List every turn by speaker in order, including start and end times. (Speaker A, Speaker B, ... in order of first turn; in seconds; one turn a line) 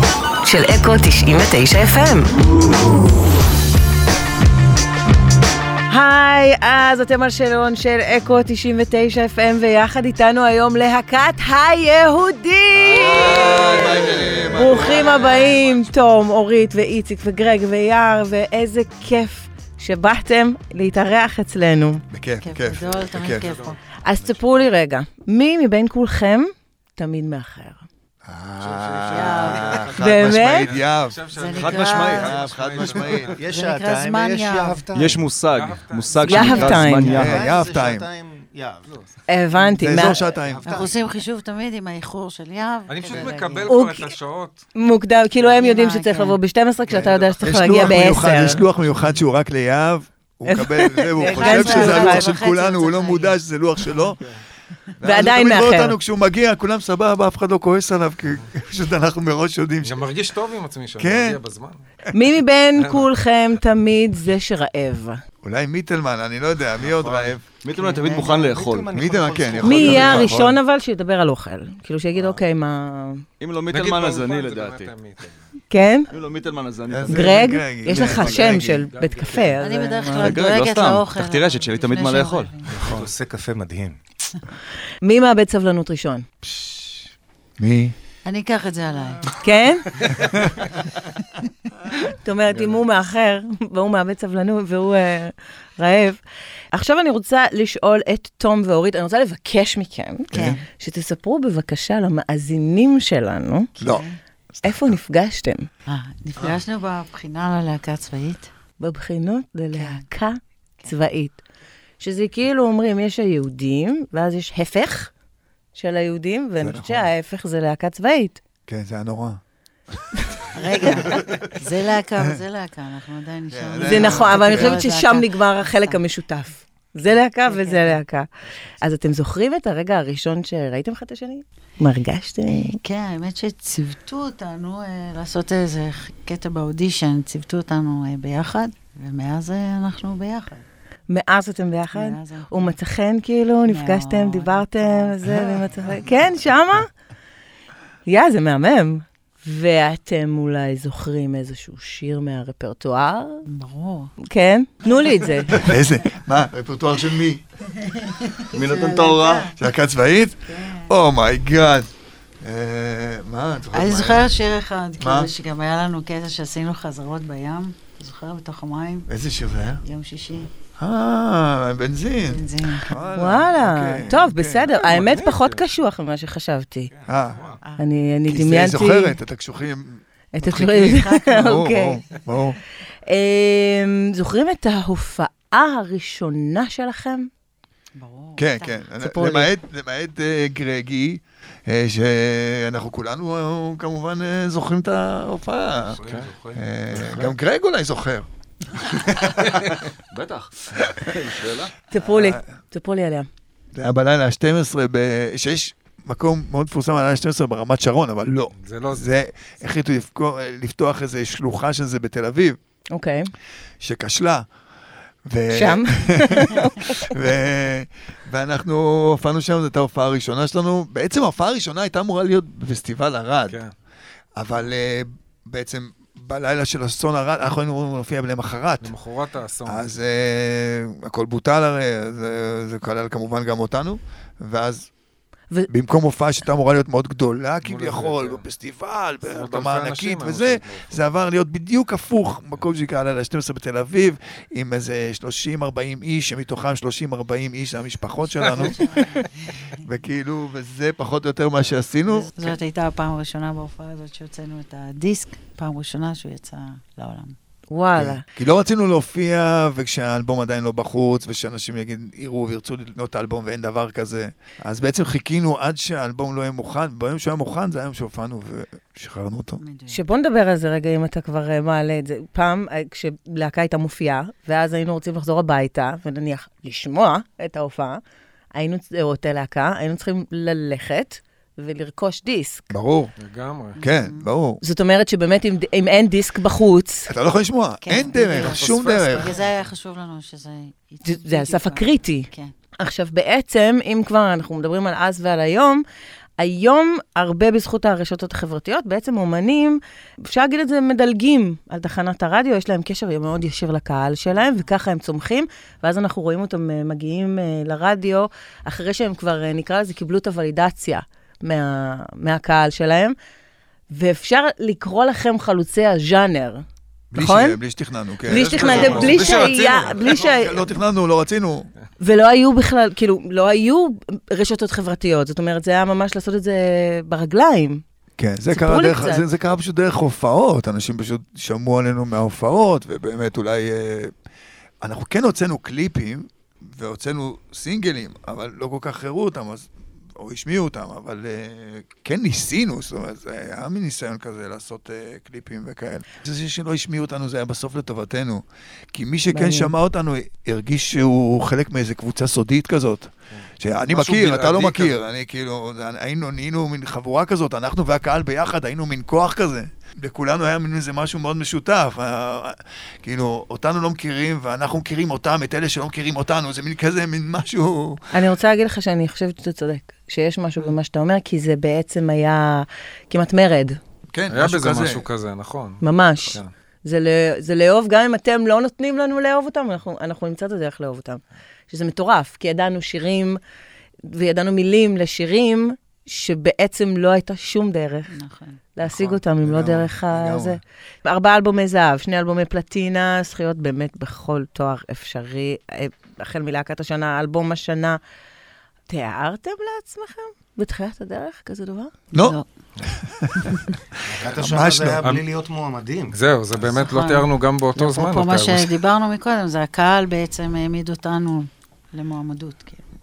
Speaker A: 0.4-2.4
Speaker A: 5.9-22.0
Speaker B: 12.8-15.5
Speaker C: 13.2-14.2
Speaker D: 14.5-15.9
Speaker B: 22.1-23.5
Speaker C: 22.4-23.8
Speaker D: 23.1-23.8
Speaker A: 24.0-27.8
Speaker B: 28.2-31.2
Speaker D: 28.6-29.9
Speaker E: 29.0-30.5
Speaker C: 29.1-29.6
Speaker A: 30.0-30.7
Speaker D: 30.5-33.4
Speaker C: 31.3-32.5
Speaker F: 31.5-32.5
Speaker B: 32.1-33.4
Speaker E: 32.5-35.3
Speaker C: 33.5-34.9
Speaker F: 34.9-37.4
Speaker D: 35.5-36.9
Speaker A: 36.2-37.2
Speaker C: 36.3-37.1
Speaker E: 37.0-39.0
Speaker B: 37.1-38.1
Speaker A: 39.3-40.2
Speaker B: 39.8-40.9
Speaker E: 40.4-41.1
Speaker C: 40.6-43.8
Speaker D: 42.9-44.6
Speaker A: 43.7-44.1
Speaker A: 44.7-48.6
Speaker C: 45.4-46.4
Speaker B: 46.9-54.2
Speaker D: 47.0-47.7
Speaker A: 50.5-52.3
Speaker C: 51.2-53.4
Speaker B: 55.0-60.0
Speaker A: 55.0-56.0
Speaker D: 59.8-61.8
Speaker B: 61.0-61.4
Speaker A: 62.1-65.2
Speaker D: 62.8-63.1
Speaker B: 65.4-67.4
Speaker E: 66.8-70.4
Speaker F: 67.5-69.0
Speaker B: 68.9-70.6
Speaker A: 69.6-73.2
Speaker F: 73.4-74.9
Speaker D: 73.7-75.4
Speaker A: 75.7-76.1
Speaker F: 76.1-78.8
Speaker B: 76.9-78.8
Speaker A: 77.1-80.4
Speaker D: 78.3-79.6
Speaker C: 79.5-82.7
Speaker F: 80.1-82.5
Speaker E: 82.6-84.0
Speaker B: 82.8-83.1
Speaker A: 85.0-86.3
Speaker B: 87.6-87.9
Speaker C: 88.2-89.3
Speaker A: 89.4-89.9
Speaker A: 92.1-96.2
Speaker A: 96.7-103.7
Speaker C: 100.3-100.6
Speaker C: 103.8-104.2
Speaker B: 103.8-104.0
Speaker B: 104.6-105.0
Speaker A: 104.6-105.7
Speaker C: 105.8-108.5
Speaker A: 108.8-111.4
Speaker C: 109.7-110.1
Speaker A: 112.0-115.1
Speaker A: 115.7-118.4
Speaker B: 116.6-117.1
Speaker B: 118.7-119.4
Speaker C: 120.5-126.0
Speaker B: 123.5-124.8
Speaker A: 123.8-128.3
Speaker C: 127.4-128.0
Speaker A: 128.8-132.8
Speaker C: 132.5-140.6
Speaker A: 141.1-146.9
Speaker C: 141.9-142.7
Speaker C: 143.7-145.6
Speaker A: 148.1-153.4
Speaker C: 153.5-154.1
Speaker A: 154.2-155.6
Speaker C: 154.9-155.6
Speaker B: 155.5-157.4
Speaker C: 157.8-159.6
Speaker F: 158.5-159.5
Speaker B: 159.5-161.9
Speaker C: 160.5-160.9
Speaker B: 162.4-164.3
Speaker C: 163.7-169.1
Speaker B: 165.0-165.3
Speaker B: 169.1-169.8
Speaker C: 169.8-170.5
Speaker B: 170.8-174.7
Speaker C: 172.2-173.0
Speaker A: 173.1-176.9
Speaker D: 174.7-175.7
Speaker E: 176.9-177.6
Speaker B: 177.1-177.5
Speaker A: 177.8-179.2
Speaker B: 178.2-182.6
Speaker A: 180.3-182.0
Speaker C: 180.8-181.5
Speaker A: 183.1-187.3
Speaker C: 187.9-188.8
Speaker B: 188.4-196.0
Speaker A: 189.0-189.5
Speaker F: 196.0-196.6
Speaker D: 196.0-196.3
Speaker B: 196.5-199.6
Speaker D: 196.9-197.3
Speaker F: 200.1-201.7
Speaker A: 201.9-203.3
Speaker B: 202.0-202.4
Speaker B: 203.7-212.6
Speaker D: 208.6-209.1
Speaker A: 212.9-213.3
Speaker B: 213.8-214.5
Speaker B: 215.3-223.6
Speaker A: 215.5-217.1
Speaker B: 224.3-228.9
Speaker D: 228.8-229.9
Speaker B: 229.6-234.9
Speaker B: 235.7-252.6
Speaker D: 237.6-238.4
Speaker D: 239.2-241.0
Speaker C: 248.6-249.7
Speaker C: 252.0-257.3
Speaker A: 257.7-258.2
Speaker B: 257.9-269.6
Speaker C: 269.6-270.0
Speaker A: 269.9-278.0
Speaker A: 278.5-282.7
Speaker B: 282.7-283.1
Speaker D: 283.2-283.8
Speaker C: 283.7-284.2
Speaker B: 283.8-284.6
Speaker A: 284.6-287.1
Speaker B: 287.1-289.3
Speaker C: 287.8-292.5
Speaker D: 288.4-289.6
Speaker A: 291.0-295.8
Speaker A: 296.4-313.1
Speaker A: 313.9-316.6
Speaker B: 317.1-319.4
Speaker A: 317.1-317.6
Speaker D: 318.3-320.2
Speaker A: 318.3-320.7
Speaker B: 320.0-321.7
Speaker A: 322.0-327.8
Speaker B: 328.2-334.1
Speaker A: 328.5-329.3
Speaker B: 334.8-368.1
Speaker A: 349.3-349.7
Speaker D: 353.9-355.0
Speaker A: 368.1-373.8
Speaker B: 374.1-375.1
Speaker D: 374.3-376.5
Speaker A: 375.8-383.4
Speaker A: 384.0-388.1
Speaker C: 388.1-388.6
Speaker A: 388.8-398.0
Speaker B: 388.8-390.6
Speaker A: 398.9-401.9
Speaker B: 402.1-402.4
Speaker C: 402.1-402.4
Speaker B: 402.9-403.6
Speaker E: 404.1-406.2
Speaker B: 404.2-405.1
Speaker D: 405.0-405.2
Speaker D: 406.1-408.8
Speaker C: 406.6-412.8